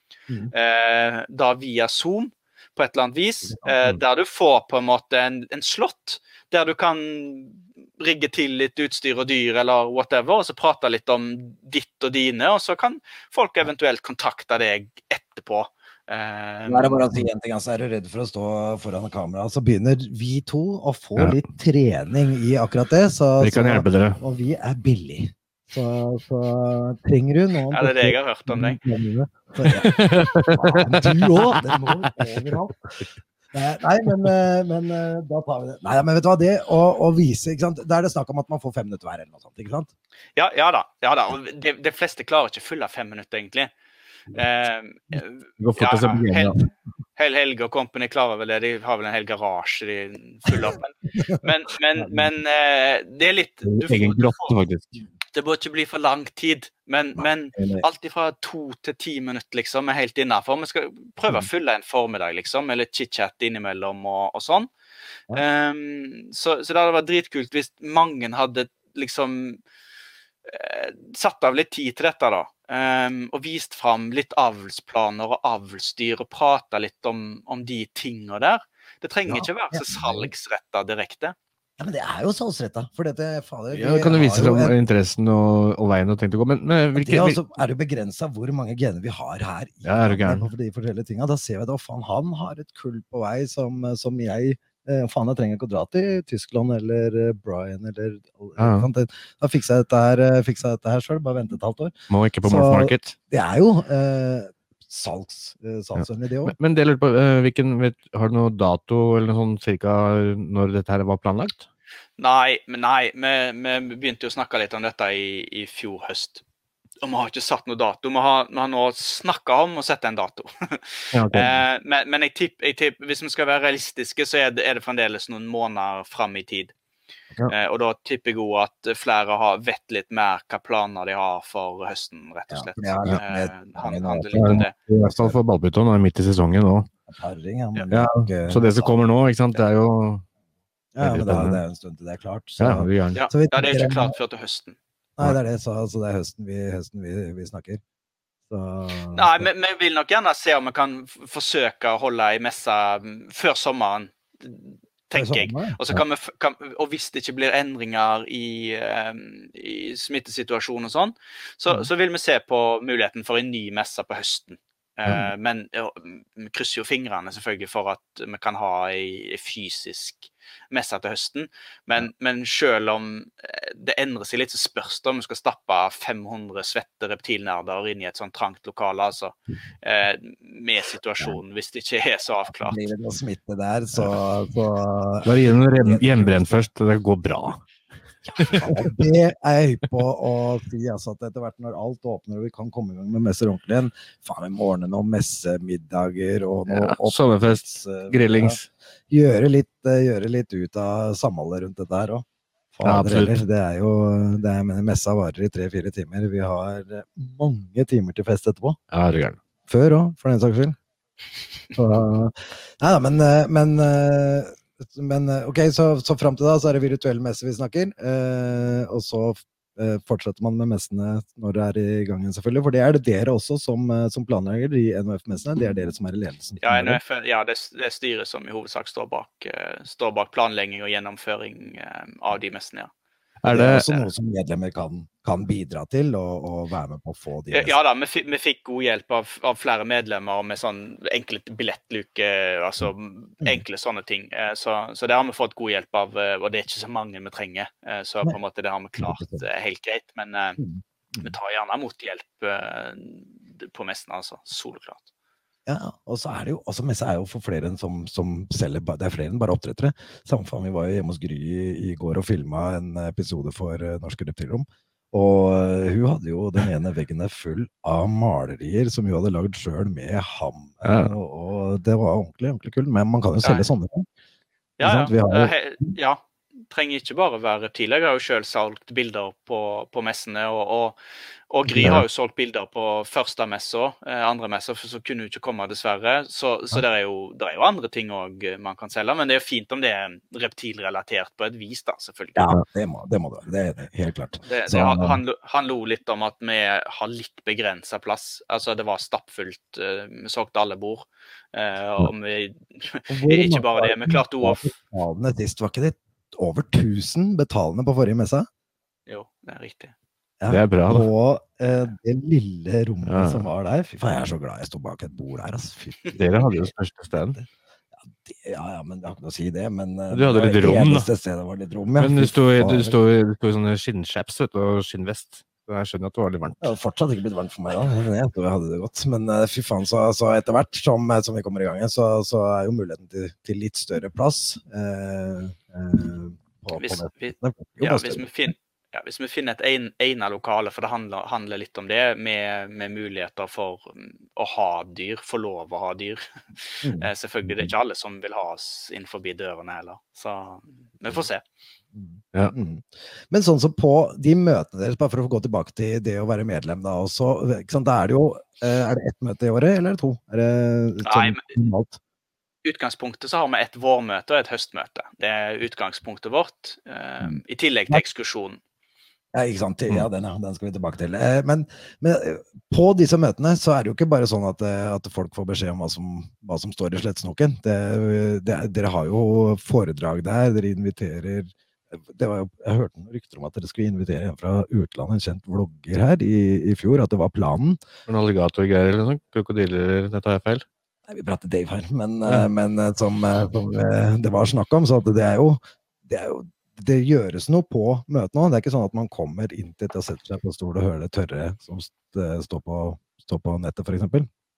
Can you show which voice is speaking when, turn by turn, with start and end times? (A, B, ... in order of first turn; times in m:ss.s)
0:00.5-0:17.0 A
0:16.7-0:32.8 B
0:23.4-0:24.2 C
0:27.7-0:28.8 A
0:29.6-0:32.5 C
0:33.5-0:39.9 B
0:40.4-0:43.7 A
0:44.3-0:46.6 A
0:45.6-0:46.6 C
0:47.2-0:54.6 A
0:52.0-0:52.3 B
0:53.7-0:55.0 C
0:55.3-1:04.7 A
0:57.2-0:57.8 B
1:05.3-1:09.6 A
1:10.5-1:21.4 A
1:19.3-1:20.3 B
1:21.8-1:24.8 B
1:23.7-1:27.4 C
1:27.0-1:46.6 B
1:29.8-1:30.5 C
1:38.6-1:38.9 C
1:42.1-1:43.2 C
1:46.0-1:51.6 C
1:52.2-1:56.4 A
1:57.0-2:06.7 A
2:01.1-2:01.6 C
2:07.5-2:14.7 A
2:12.5-2:15.4 B
2:14.4-2:16.9 C
2:17.1-2:18.9 B
2:17.9-2:20.2 C
2:21.0-2:24.2 B
2:21.0-2:21.6 C
2:22.6-2:23.2 C
2:23.2-2:24.8 A
2:25.2-2:27.8 B
2:28.5-2:29.5 B
2:29.2-3:02.8 A
2:35.1-2:36.0 B
2:45.1-2:45.3 B
3:02.6-3:06.5 B
3:05.2-3:07.6 C
3:08.4-3:08.9 C
3:08.5-3:18.6 B
3:16.7-3:18.7 C
3:19.1-3:28.8 B
3:22.8-3:23.3 C
3:28.9-3:29.4 C
3:29.7-3:30.8 B
3:31.8-3:47.0 B
3:46.6-3:52.9 A
3:53.4-3:53.9 C
3:53.5-3:57.8 B
3:57.5-4:10.6 A
4:09.0-4:09.5 B
4:10.6-4:11.4 B
4:11.2-4:15.0 A
4:15.7-4:34.1 B
4:30.8-4:31.1 C
4:34.8-4:41.0 A
4:34.8-4:36.0 B
4:41.5-4:52.5 A
4:41.7-4:42.0 B
4:52.4-4:55.2 B
4:54.4-5:04.7 A
5:03.1-5:08.5 B
5:09.1-5:09.9 A
5:10.4-5:16.7 B
5:10.5-5:11.1 C
5:13.1-5:13.5 C
5:16.2-5:17.4 C
5:18.1-5:23.0 B
5:20.1-5:21.1 C
5:22.0-5:26.6 C
5:26.6-5:38.3 B
5:36.8-5:51.4 A
5:46.8-5:47.7 B
5:51.9-6:02.0 B
6:01.0-6:01.5 A
6:02.6-6:08.6 A
6:07.2-6:08.0 B
6:09.3-6:27.8 B
6:28.1-6:30.7 C
6:31.1-6:44.3 B